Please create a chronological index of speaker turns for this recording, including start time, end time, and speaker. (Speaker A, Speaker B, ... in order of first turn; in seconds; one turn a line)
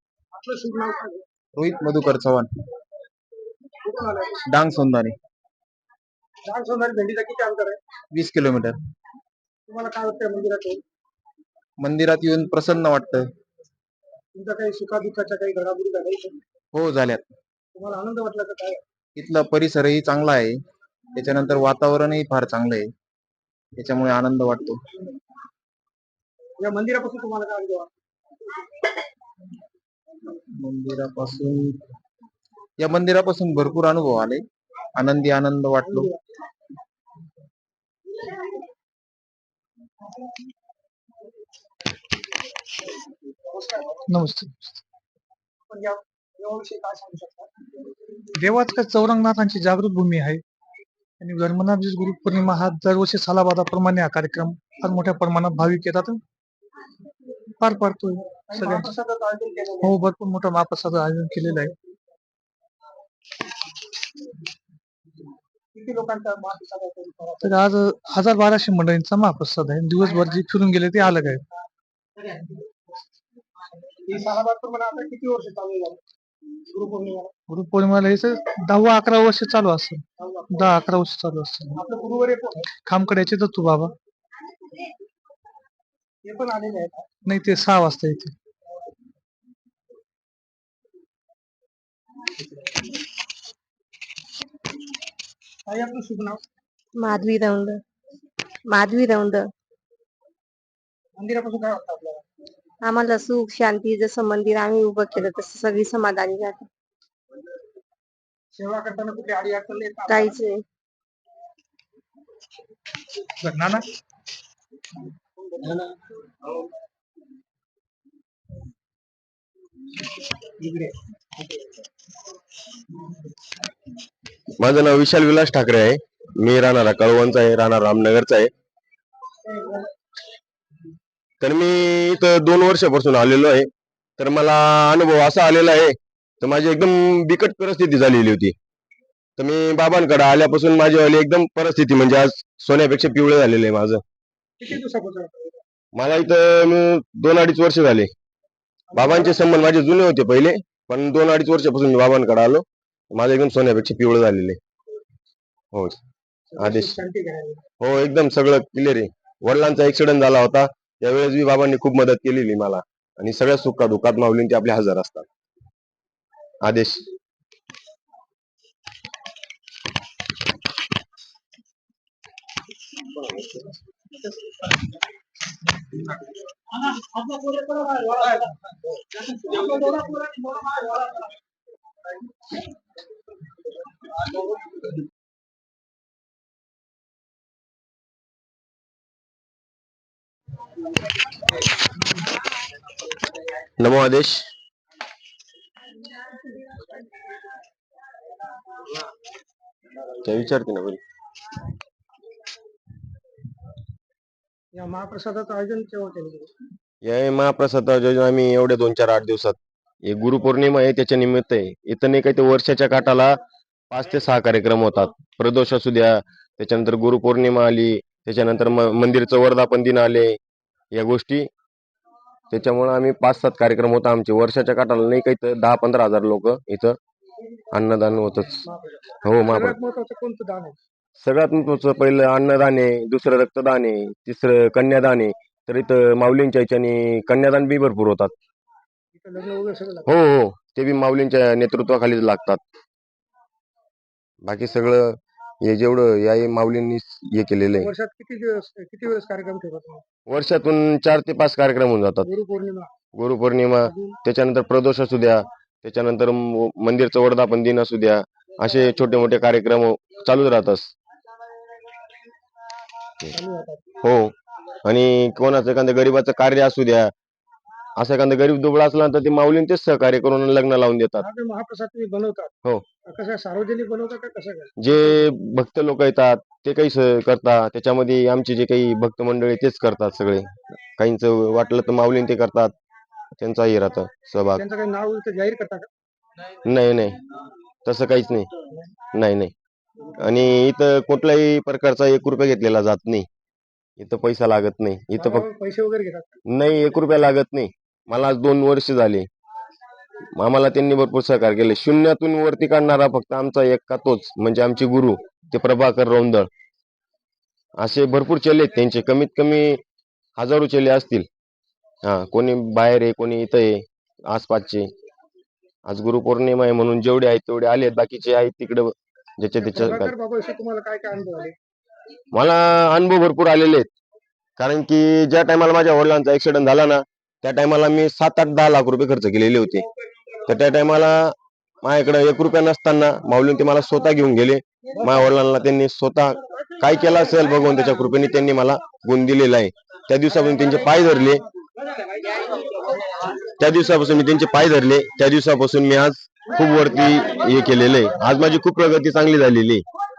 Speaker A: 0.3-1.2
Speaker B: 1.6-2.5
Speaker A: 3.8-4.4
Speaker B: 4.5-5.1
Speaker A: 6.5-7.8
Speaker B: 8.1-8.8
Speaker A: 9.7-10.8
Speaker B: 11.8-13.3
Speaker A: 14.3-16.4
Speaker B: 16.7-17.2
Speaker A: 17.8-18.8
Speaker B: 19.2-20.6
Speaker B: 21.2-22.9
Speaker B: 23.8-24.8
Speaker A: 26.6-27.9
Speaker B: 30.5-31.8
Speaker B: 32.8-34.4
Speaker B: 35.0-36.1
Speaker A: 35.8-36.2
Speaker A: 43.5-44.0
Speaker C: 44.1-44.8
Speaker A: 45.7-47.5
Speaker C: 48.4-50.4
Speaker C: 51.2-56.2
Speaker C: 57.6-58.9
Speaker A: 58.4-60.0
Speaker C: 59.8-61.7
Speaker A: 65.8-67.6
Speaker C: 67.4-71.4
Speaker A: 74.1-76.0
Speaker A: 76.7-77.3
Speaker C: 77.5-81.8
Speaker A: 80.2-80.5
Speaker A: 81.8-82.7
Speaker C: 82.8-83.9
Speaker A: 86.3-87.0
Speaker C: 87.3-88.3
Speaker A: 95.7-96.4
Speaker D: 97.0-97.8
Speaker D: 98.7-99.5
Speaker A: 101.2-102.2
Speaker D: 102.8-106.7
Speaker A: 108.5-110.4
Speaker D: 110.1-110.6
Speaker C: 113.4-113.8
Speaker A: 120.6-120.9
Speaker E: 124.6-128.5
Speaker A: 129.5-129.9
Speaker E: 131.4-138.6
Speaker E: 139.4-144.0
Speaker A: 144.6-145.6
Speaker E: 145.9-148.1
Speaker A: 148.9-149.4
Speaker E: 148.9-154.6
Speaker E: 155.7-156.0
Speaker A: 156.5-157.6
Speaker E: 156.6-157.0
Speaker E: 157.8-165.3
Speaker E: 166.6-167.1
Speaker A: 177.3-178.5
Speaker A: 179.3-180.9
Speaker E: 193.8-194.5
Speaker E: 200.2-201.0
Speaker A: 204.7-206.5
Speaker E: 207.0-213.4
Speaker E: 213.9-220.4
Speaker E: 220.9-221.5
Speaker E: 222.5-227.0
Speaker E: 227.7-228.7
Speaker A: 228.7-230.8
Speaker E: 229.2-229.8
Speaker E: 231.2-238.3
Speaker A: 239.2-240.1
Speaker E: 240.1-242.6
Speaker E: 244.4-247.9
Speaker A: 247.8-250.0
Speaker E: 250.3-252.3
Speaker A: 252.2-252.9
Speaker E: 253.1-260.9
Speaker A: 253.8-254.2
Speaker A: 263.3-263.9
Speaker E: 264.0-264.3
Speaker E: 264.9-267.1
Speaker E: 268.0-271.3
Speaker A: 271.2-272.5
Speaker A: 273.1-274.8
Speaker E: 274.8-282.8
Speaker E: 283.4-284.6
Speaker A: 284.6-285.9
Speaker E: 286.6-287.2
Speaker E: 287.9-288.5
Speaker E: 289.1-289.5
Speaker E: 290.2-293.3
Speaker E: 294.0-295.5
Speaker A: 295.2-296.4
Speaker E: 296.5-299.3
Speaker E: 300.4-306.5
Speaker E: 307.8-309.8
Speaker E: 310.4-311.3
Speaker E: 312.0-314.9
Speaker E: 315.9-320.1
Speaker A: 319.6-321.6
Speaker E: 322.3-323.9
Speaker E: 324.6-329.9
Speaker E: 330.5-341.4
Speaker E: 343.6-349.8